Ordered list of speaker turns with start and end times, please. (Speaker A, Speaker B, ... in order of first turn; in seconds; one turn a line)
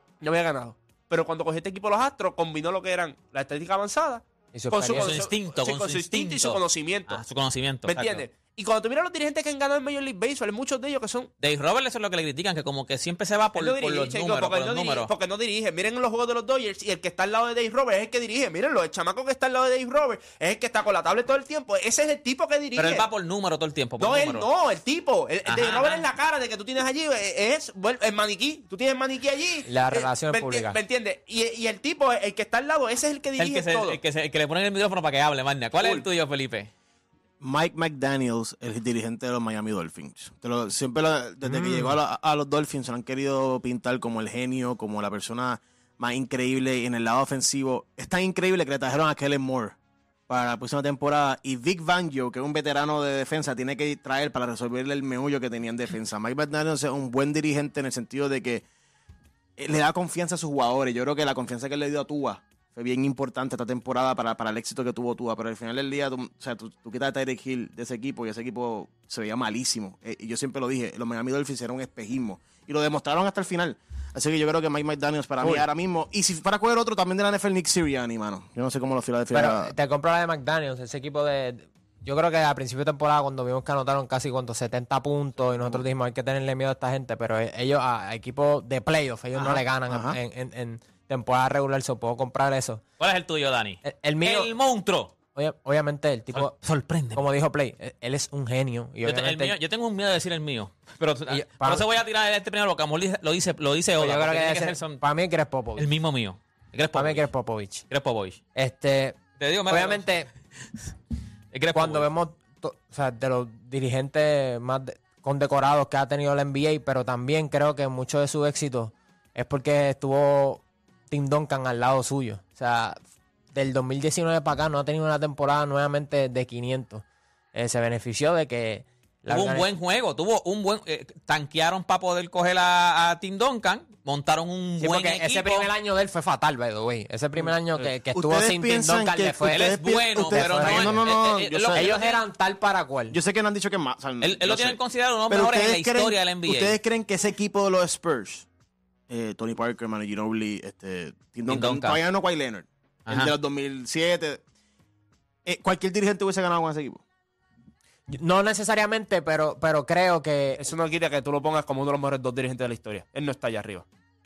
Speaker A: 0.2-7.2
Speaker B: 4.5-5.3
Speaker C: 4.9-8.2
Speaker A: 7.9-11.3
Speaker C: 11.4-15.1
Speaker A: 13.6-23.1
Speaker C: 22.8-24.5
Speaker A: 24.0-34.0
Speaker C: 25.5-26.1
Speaker B: 29.7-30.8
Speaker C: 33.4-36.7
Speaker A: 35.8-36.0
Speaker D: 37.4-49.8
Speaker D: 50.3-58.6
Speaker D: 59.6-79.7
Speaker B: 79.3-92.8
Speaker D: 85.6-85.8
Speaker D: 89.4-90.2
Speaker C: 93.0-95.1
Speaker B: 93.8-94.5
Speaker B: 95.3-99.5
Speaker C: 96.3-97.2
Speaker C: 99.0-105.0
Speaker B: 101.3-101.9
Speaker B: 104.0-105.9
Speaker C: 105.8-107.3
Speaker B: 107.0-107.9
Speaker C: 107.9-108.4
Speaker B: 108.5-110.3
Speaker C: 109.4-110.1
Speaker C: 111.5-112.1
Speaker B: 111.7-123.0
Speaker B: 123.5-129.7
Speaker C: 129.3-135.7
Speaker B: 134.8-139.7
Speaker D: 138.1-141.9
Speaker C: 139.5-142.2
Speaker B: 140.3-141.0
Speaker B: 141.7-143.2
Speaker D: 143.1-148.5
Speaker C: 144.2-146.8
Speaker D: 149.1-154.4
Speaker C: 151.5-152.0
Speaker C: 153.1-153.3
Speaker D: 155.5-157.0
Speaker B: 158.1-160.6
Speaker A: 160.6-163.9